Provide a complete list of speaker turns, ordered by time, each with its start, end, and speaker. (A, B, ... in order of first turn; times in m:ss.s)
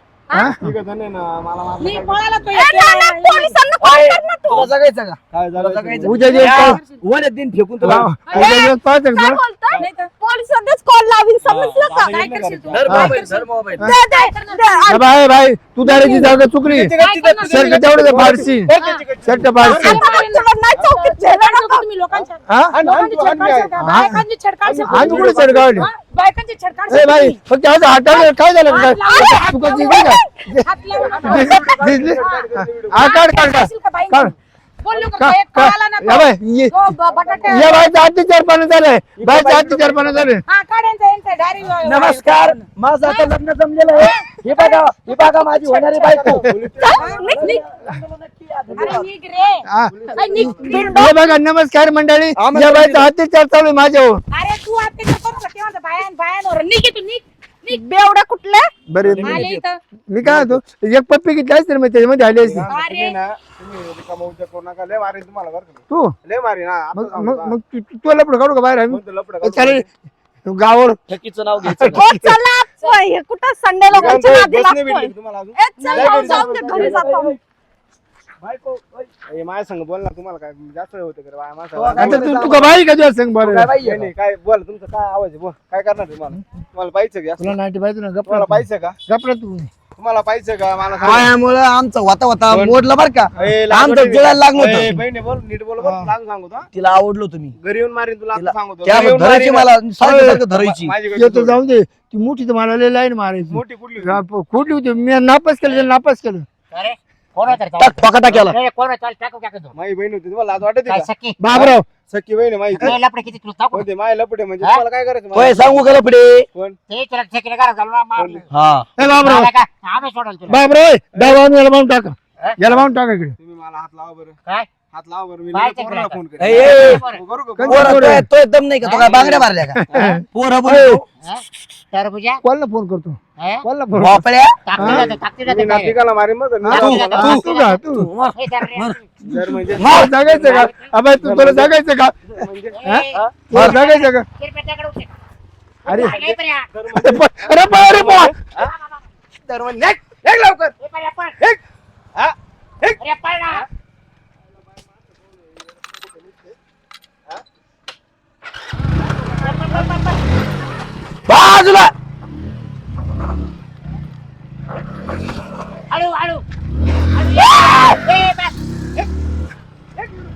0:00.3-0:00.7 A
0:00.6-0:02.5 B
0:01.8-0:03.6 C
0:02.5-0:04.7 D
0:03.8-0:08.1 E
0:05.3-0:06.5 B
0:06.0-0:06.8 A
0:06.3-0:07.0 C
0:07.8-0:08.3 B
0:07.8-0:09.4 A
0:08.3-0:08.6 C
0:08.3-0:12.2 D
0:09.7-0:10.1 C
0:11.4-0:11.8 E
0:11.9-0:13.1 B
0:11.9-0:15.0 C
0:12.7-0:13.8 E
0:12.9-0:13.1 A
0:13.8-0:15.0 D
0:14.9-0:16.9 A
0:15.8-0:16.3 D
0:16.6-0:19.9 B
0:17.0-0:17.8 C
0:17.5-0:18.7 A
0:18.7-0:19.0 C
0:19.2-0:20.0 A
0:19.6-0:27.4 C
0:19.8-0:21.8 D
0:22.1-0:23.7 B
0:22.5-0:22.7 A
0:23.8-0:24.2 A
0:24.6-0:25.9 B
0:24.8-0:25.9 A
0:26.9-0:30.7 A
0:28.0-0:29.8 C
0:29.7-0:30.4 D
0:30.6-0:37.9 C
0:30.9-0:33.1 B
0:31.2-0:34.3 A
0:35.2-0:36.8 A
0:37.0-0:37.8 B
0:37.5-0:40.4 A
0:39.2-0:40.3 E
0:40.4-0:43.3 C
0:41.8-0:46.5 E
0:44.0-0:46.3 C
0:46.1-0:47.3 B
0:46.8-0:47.5 D
0:46.9-0:47.6 C
0:47.2-0:49.1 E
0:48.7-0:49.0 B
0:48.8-0:51.4 C
0:49.7-0:54.2 A
0:49.9-0:50.9 B
0:50.9-0:51.2 D
0:52.4-0:53.1 E
0:54.3-0:57.8 C
0:57.7-0:58.7 D
0:58.9-0:59.5 A
0:59.0-0:59.6 E
0:59.2-0:59.8 C
1:00.1-1:02.7 A
1:00.2-1:00.6 B
1:02.4-1:07.6 B
1:02.7-1:03.2 C
1:05.9-1:06.2 A
1:06.9-1:09.8 A
1:08.9-1:09.8 B
1:10.4-1:11.0 A
1:11.1-1:12.0 E
1:11.6-1:12.3 A
1:11.9-1:17.4 D
1:13.9-1:17.0 B
1:15.9-1:17.4 E
1:18.4-1:19.1 E
1:19.3-1:22.3 B
1:21.7-1:22.8 E
1:21.9-1:23.7 A
1:23.4-1:24.1 E
1:23.8-1:27.5 B
1:27.4-1:29.7 A
1:28.2-1:29.0 B
1:30.0-1:31.3 B
1:31.0-1:35.0 E
1:32.5-1:32.8 B
1:33.4-1:36.7 B
1:35.8-1:36.1 A
1:36.7-1:37.5 E
1:37.6-1:39.7 B
1:38.3-1:40.9 E
1:40.0-1:40.4 A
1:40.5-1:41.6 B
1:41.1-1:46.5 A
1:43.5-1:44.2 B
1:46.7-1:49.7 F
1:47.8-1:48.6 E
1:49.7-1:53.0 B
1:50.8-1:51.4 F
1:51.4-1:51.8 A
1:52.7-1:53.9 F
1:53.7-1:55.9 B
1:55.3-1:56.5 E
1:56.5-1:56.8 B
1:56.9-1:58.4 F
1:58.2-1:58.4 B
1:58.5-1:58.9 E
1:59.0-1:59.5 A
1:59.1-2:00.6 F
2:00.5-2:03.4 A
2:03.4-2:04.4 B
2:04.4-2:04.7 F
2:04.9-2:08.1 B
2:05.5-2:07.2 F
2:06.4-2:07.0 E
2:07.6-2:08.3 A
2:07.7-2:11.0 E
2:08.8-2:09.1 F
2:09.0-2:10.2 B
2:09.7-2:11.0 A
2:11.2-2:12.4 F
2:12.4-2:14.2 A
2:13.4-2:13.6 F
2:14.0-2:14.6 E
2:14.6-2:16.0 F
2:14.8-2:15.1 A
2:14.8-2:17.4 B
2:16.6-2:18.1 A
2:16.7-2:19.0 E
2:16.7-2:17.8 F
2:18.3-2:19.1 F
2:19.2-2:22.8 B
2:19.3-2:22.2 A
2:19.8-2:20.4 E
2:20.4-2:20.9 F
2:22.7-2:25.1 F
2:22.8-2:24.2 A
2:23.1-2:23.8 E
2:25.9-2:26.2 A
2:25.9-2:26.7 F
2:25.9-2:28.0 B
2:26.9-2:28.3 A
2:27.8-2:28.3 E
2:28.6-2:29.0 F
2:29.4-2:30.7 E
2:30.8-2:31.4 F
2:33.0-2:33.6 F
2:35.0-2:36.6 B
2:39.3-2:40.2 F
2:41.3-2:41.9 E
2:45.9-2:46.4 F
2:47.2-2:49.1 F